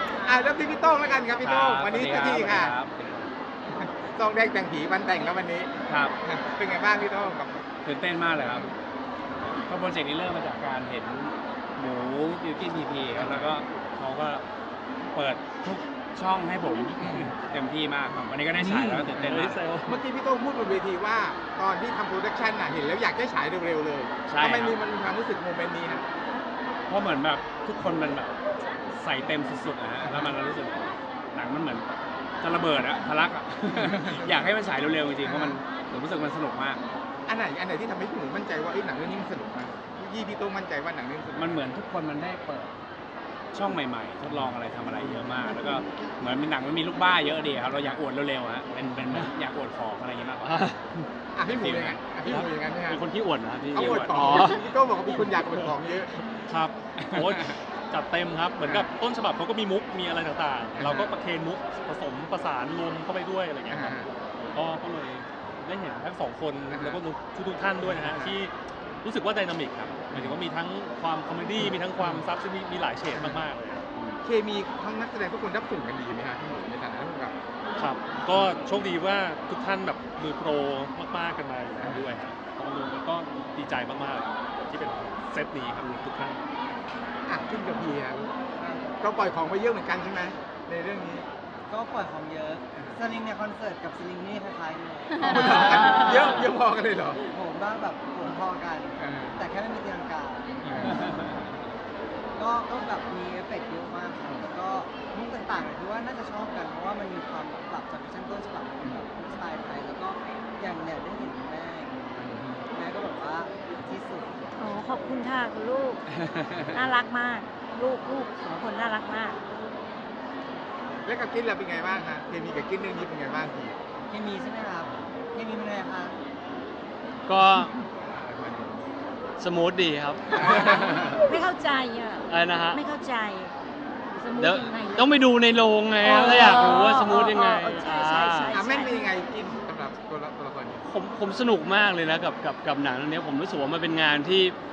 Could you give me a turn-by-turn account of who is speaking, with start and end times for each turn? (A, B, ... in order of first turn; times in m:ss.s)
0:00.2-0:02.8 A
0:01.4-0:03.3 B
0:03.7-0:05.7 A
0:05.9-0:06.1 B
0:06.2-0:07.7 A
0:07.8-0:08.7 B
0:09.5-0:14.4 B
0:15.1-0:19.6 B
0:18.6-0:19.1 C
0:19.2-0:20.0 D
0:19.9-0:26.0 A
0:24.3-0:24.8 C
0:26.9-0:31.9 B
0:30.0-0:30.3 A
0:32.4-0:36.8 B
0:34.2-0:34.4 A
0:35.2-0:35.6 A
0:37.3-0:41.6 A
0:41.3-0:42.7 B
0:43.5-0:50.6 B
0:50.4-0:51.0 C
0:51.3-0:53.0 A
0:51.4-0:52.0 B
0:52.2-0:54.6 C
0:53.7-0:56.4 A
0:56.5-1:04.0 D
0:58.6-0:58.9 A
1:00.8-1:01.1 A
1:03.7-1:04.1 A
1:04.5-1:08.5 D
1:06.7-1:07.0 A
1:07.8-1:08.3 A
1:09.0-1:13.8 D
1:11.6-1:12.2 A
1:13.1-1:13.4 A
1:14.2-1:17.4 A
1:17.8-1:26.4 D
1:21.8-1:22.1 A
1:27.3-1:28.3 A
1:28.6-1:28.9 E
1:29.0-1:31.2 A
1:31.7-1:36.4 E
1:35.1-1:37.2 A
1:37.3-1:41.3 E
1:39.0-1:39.4 A
1:40.6-1:41.0 A
1:42.4-1:54.4 E
1:52.2-1:52.6 A
1:54.6-1:56.0 F
1:56.6-1:59.4 F
2:01.0-2:03.8 A
2:04.1-2:06.2 E
2:07.3-2:07.7 C
2:08.2-2:08.8 A
2:09.4-2:10.8 C
2:10.3-2:11.2 A
2:10.5-2:13.5 F
2:12.3-2:12.8 C
2:14.1-2:15.0 F
2:14.4-2:18.6 C
2:16.0-2:19.0 F
2:16.4-2:17.0 A
2:18.4-2:20.8 A
2:20.8-2:24.6 C